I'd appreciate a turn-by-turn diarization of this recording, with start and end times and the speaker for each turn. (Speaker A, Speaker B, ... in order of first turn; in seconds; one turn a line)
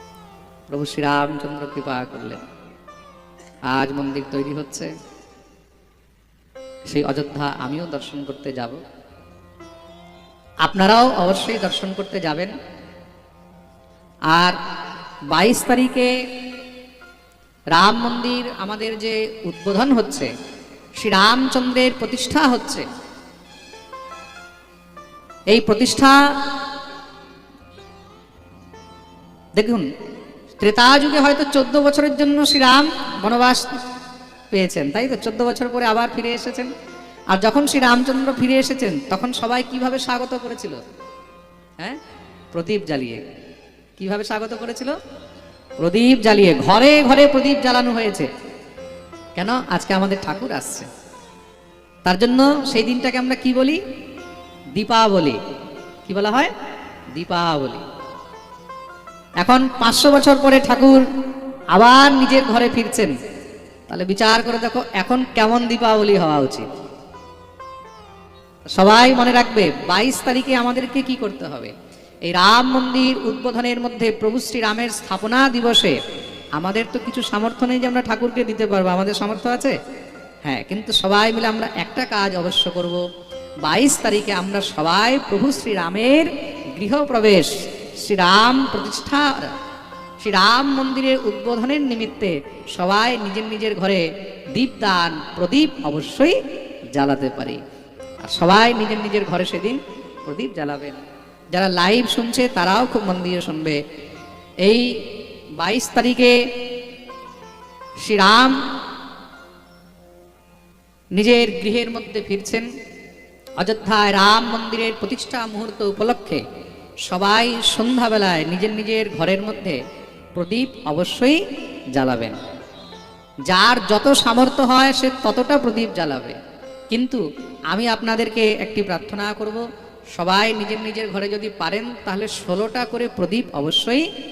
Speaker A: 0.7-2.4
Speaker A: 3.7-4.9
Speaker A: 6.9-8.8
Speaker A: 10.6-12.5
Speaker A: 14.3-14.6
Speaker A: 15.3-16.1
Speaker A: 17.8-20.3
Speaker A: 21.0-22.8
Speaker A: 25.5-26.2
Speaker A: 29.6-29.9
Speaker A: 30.6-33.6
Speaker A: 34.5-36.7
Speaker A: 37.3-40.8
Speaker A: 42.5-43.2
Speaker A: 44.0-44.9
Speaker A: 45.8-48.3
Speaker A: 49.4-50.9
Speaker A: 52.1-53.8
Speaker A: 54.8-55.4
Speaker A: 56.0-56.5
Speaker A: 57.1-57.8
Speaker A: 59.4-61.0
Speaker A: 61.7-63.1
Speaker A: 63.9-66.7
Speaker A: 68.8-71.7
Speaker A: 72.3-76.0
Speaker A: 76.6-79.8
Speaker A: 80.5-83.0
Speaker A: 83.6-89.5
Speaker A: 90.2-96.4
Speaker A: 96.9-97.6
Speaker A: 98.2-101.0
Speaker A: 101.5-103.8
Speaker A: 104.6-104.9
Speaker A: 105.6-106.4
Speaker A: 108.0-108.6
Speaker A: 111.1-112.7
Speaker A: 113.6-116.4
Speaker A: 117.1-119.8
Speaker A: 120.3-121.4
Speaker A: 121.9-122.4
Speaker A: 123.5-126.3
Speaker A: 126.9-129.6
Speaker A: 130.2-134.1